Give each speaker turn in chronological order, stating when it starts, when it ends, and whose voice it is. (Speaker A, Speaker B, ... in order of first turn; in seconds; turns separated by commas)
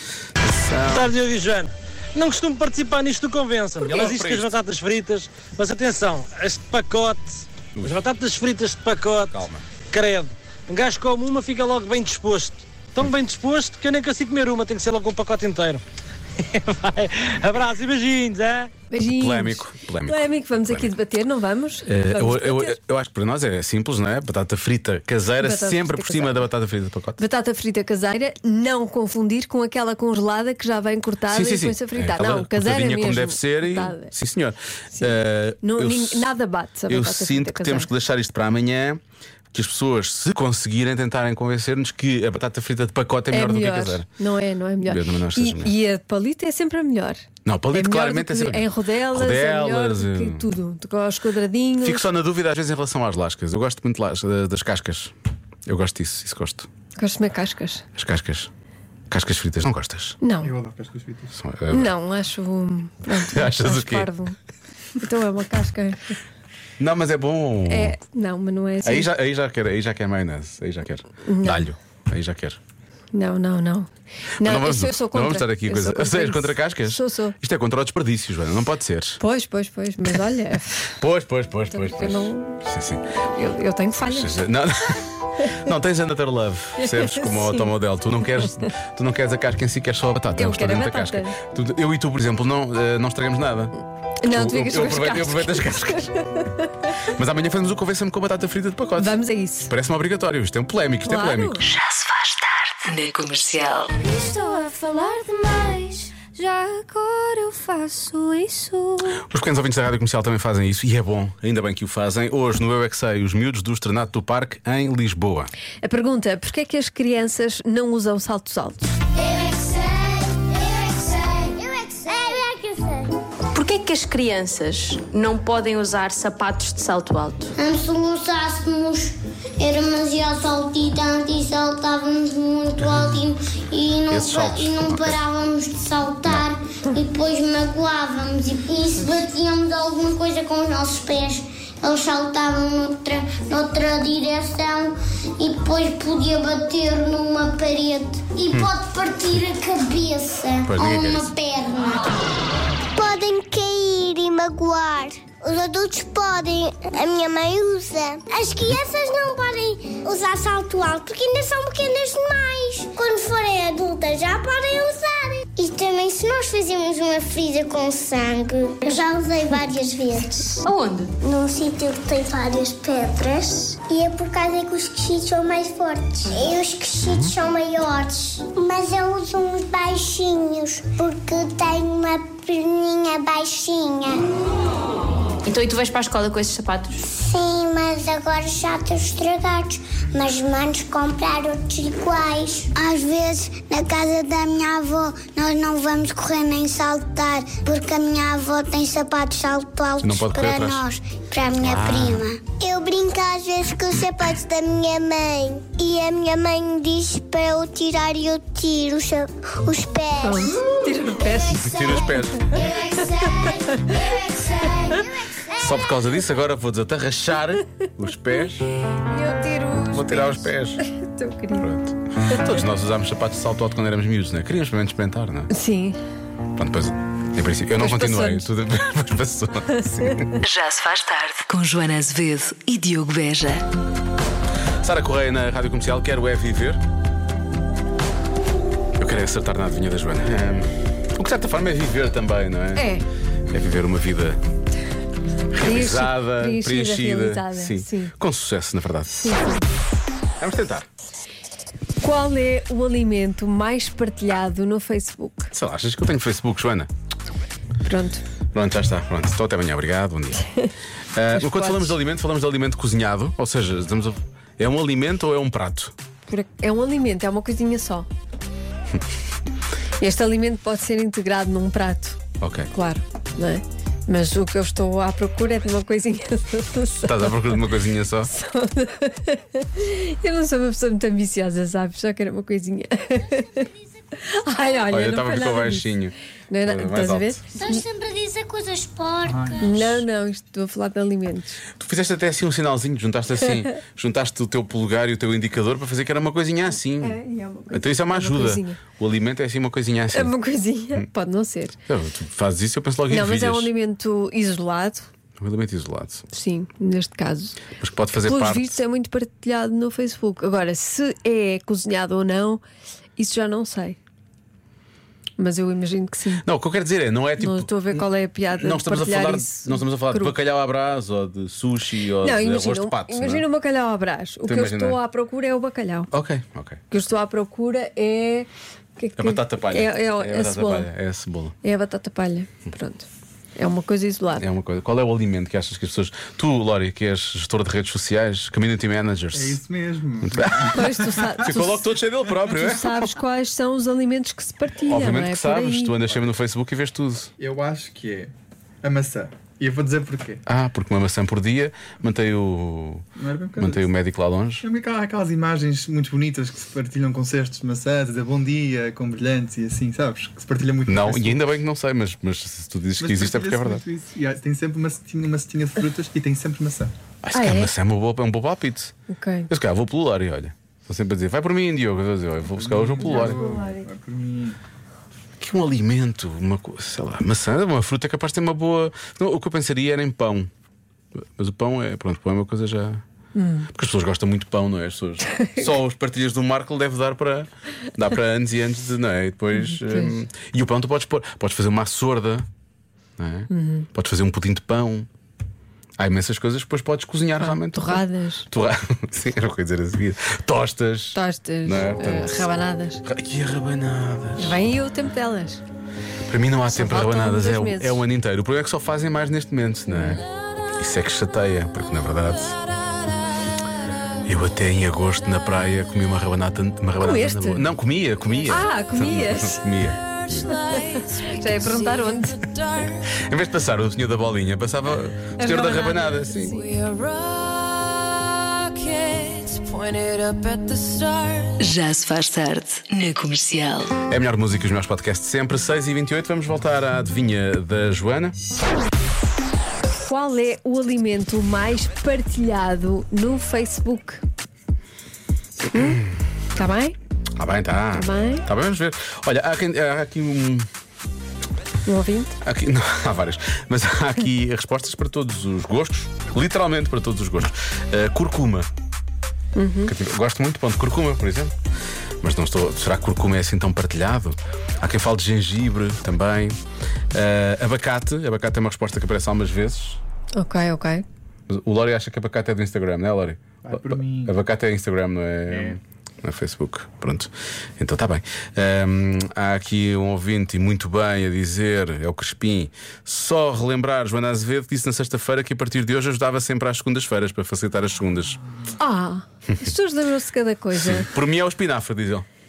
Speaker A: 0.4-1.1, Speaker B: 0.9-15.8, Speaker A: 3.8-4.5, Speaker A: 9.3-9.7, Speaker B: 16.4-18.7, Speaker C: 18.9-22.8, Speaker A: 19.0-20.9, Speaker A: 21.9-27.2, Speaker C: 25.4-26.5, Speaker C: 27.2-34.1, Speaker A: 31.3-36.3, Speaker C: 35.6-37.9, Speaker A: 36.9-39.0, Speaker A: 39.5-44.1, Speaker C: 43.3-52.0, Speaker A: 44.8-45.7, Speaker A: 47.4-50.4, Speaker A: 51.8-55.1, Speaker A: 55.6-56.7, Speaker C: 57.0-57.8, Speaker A: 58.0-58.5, Speaker A: 59.1-60.2, Speaker C: 60.2-60.5, Speaker D: 60.4-61.4, Speaker A: 61.4-61.9, Speaker C: 61.7-64.3, Speaker A: 63.1-64.1, Speaker C: 65.0-66.2, Speaker A: 66.8-68.0, Speaker C: 67.7-69.1, Speaker A: 68.8-72.6, Speaker C: 71.2-71.7, Speaker C: 73.1-77.3, Speaker A: 74.4-79.2, Speaker C: 79.2-80.9, Speaker A: 81.0-83.0, Speaker C: 81.7-82.6, Speaker C: 83.2-84.4, Speaker A: 84.0-93.7, Speaker C: 86.8-87.7, Speaker C: 90.3-91.3, Speaker C: 94.2-96.9, Speaker A: 94.3-96.1, Speaker A: 97.0-101.6, Speaker C: 99.0-99.7, Speaker C: 101.0-101.6, Speaker E: 101.6-104.0, Speaker C: 104.0-109.2, Speaker A: 109.2-115.5, Speaker C: 115.8-118.9, Speaker F: 119.2-123.1, Speaker G: 123.5-127.5, Speaker F: 127.5-152.2, Speaker A: 134.1-135.2, Speaker A: 150.6-151.3, Speaker F: 152.9-170.7, Speaker G: 170.6-171.1, Speaker F: 171.2-184.2, Speaker G: 185.4-187.0, Speaker F: 187.1-215.8, Speaker A: 200.0-200.8, Speaker A: 201.6-202.3, Speaker C: 210.2-212.0, Speaker A: 211.5-212.7, Speaker C: 213.4-213.9, Speaker A: 215.5-218.7, Speaker C: 219.1-221.7, Speaker A: 219.9-220.8, Speaker A: 221.5-225.5, Speaker C: 225.5-226.0, Speaker A: 226.6-230.3, Speaker C: 227.8-228.5, Speaker C: 230.0-230.3, Speaker E: 230.4-233.6, Speaker A: 234.8-236.8, Speaker A: 239.0-242.9, Speaker C: 242.8-243.0, Speaker A: 243.5-244.4, Speaker A: 245.5-249.4, Speaker C: 245.6-248.1, Speaker C: 249.2-249.6, Speaker A: 250.4-250.9, Speaker C: 252.0-255.5, Speaker A: 255.5-256.9, Speaker C: 257.8-258.2, Speaker A: 258.5-260.4, Speaker A: 261.1-265.9, Speaker C: 261.3-262.0, Speaker C: 266.3-268.1, Speaker C: 270.0-272.2, Speaker A: 272.4-272.7, Speaker C: 272.7-277.6, Speaker A: 277.0-278.3, Speaker C: 278.2-283.6, Speaker C: 284.2-285.9, Speaker A: 284.9-287.4, Speaker C: 286.5-287.8, Speaker F: 287.5-289.8, Speaker D: 289.2-289.7, Speaker C: 289.6-291.6, Speaker A: 291.8-297.2, Speaker C: 297.0-298.8, Speaker A: 297.7-300.3, Speaker C: 300.1-301.8, Speaker A: 301.9-303.7, Speaker C: 303.1-305.1, Speaker A: 305.4-306.2, Speaker C: 306.3-307.6, Speaker A: 307.8-308.8, Speaker C: 308.2-312.6, Speaker C: 313.2-314.0, Speaker C: 315.4-316.4, Speaker A: 316.4-323.4, Speaker C: 317.4-320.4, Speaker C: 322.2-326.1, Speaker A: 324.4-325.0, Speaker A: 326.1-326.8, Speaker C: 326.9-330.9, Speaker A: 329.2-331.5, Speaker C: 331.6-334.5, Speaker A: 334.4-339.6, Speaker D: 339.3-341.4, Speaker A: 340.2-343.1, Speaker C: 340.7-346.0, Speaker A: 344.8-347.3, Speaker D: 347.4-350.4, Speaker A: 350.4-353.0, Speaker D: 353.2-353.9, Speaker A: 353.6-354.6, Speaker D: 354.6-361.4, Speaker A: 360.9-363.8, Speaker D: 363.0-366.9, Speaker A: 367.2-368.9, Speaker C: 367.3-367.7, Speaker C: 369.1-369.5, Speaker A: 369.5-373.4, Speaker D: 372.5-374.6, Speaker C: 373.0-373.8, Speaker A: 375.4-380.5, Speaker A: 381.2-383.0, Speaker C: 383.3-383.7, Speaker A: 383.7-392.5, Speaker C: 385.3-385.6, Speaker C: 389.5-390.2, Speaker A: 393.2-395.1, Speaker C: 393.5-393.9, Speaker A: 396.0-402.5, Speaker C: 397.4-398.5, Speaker C: 401.1-403.0, Speaker A: 403.0-404.6, Speaker C: 404.4-405.6, Speaker A: 406.3-410.2, Speaker C: 406.7-408.0, Speaker C: 409.9-410.2, Speaker A: 410.8-412.6, Speaker A: 414.2-420.5, Speaker C: 417.0-417.6, Speaker C: 418.5-419.7, Speaker C: 420.4-422.5, Speaker A: 423.1-426.6, Speaker C: 425.4-427.1, Speaker C: 429.0-429.8, Speaker C: 430.5-431.1, Speaker E: 431.6-433.9, Speaker A: 434.1-438.4, Speaker C: 440.0-444.2, Speaker C: 445.7-446.0, Speaker A: 445.7-446.1, Speaker C: 446.6-446.9, Speaker A: 447.4-450.7, Speaker C: 447.9-448.4, Speaker C: 451.9-452.4, Speaker A: 452.4-458.7, Speaker C: 459.6-459.9, Speaker A: 459.9-461.5, Speaker A: 462.2-466.6, Speaker A: 467.1-470.0, Speaker C: 470.4-471.0, Speaker A: 471.5-488.4, Speaker D: 473.6-474.3, Speaker D: 475.5-475.8, Speaker C: 488.8-491.1, Speaker A: 490.7-492.2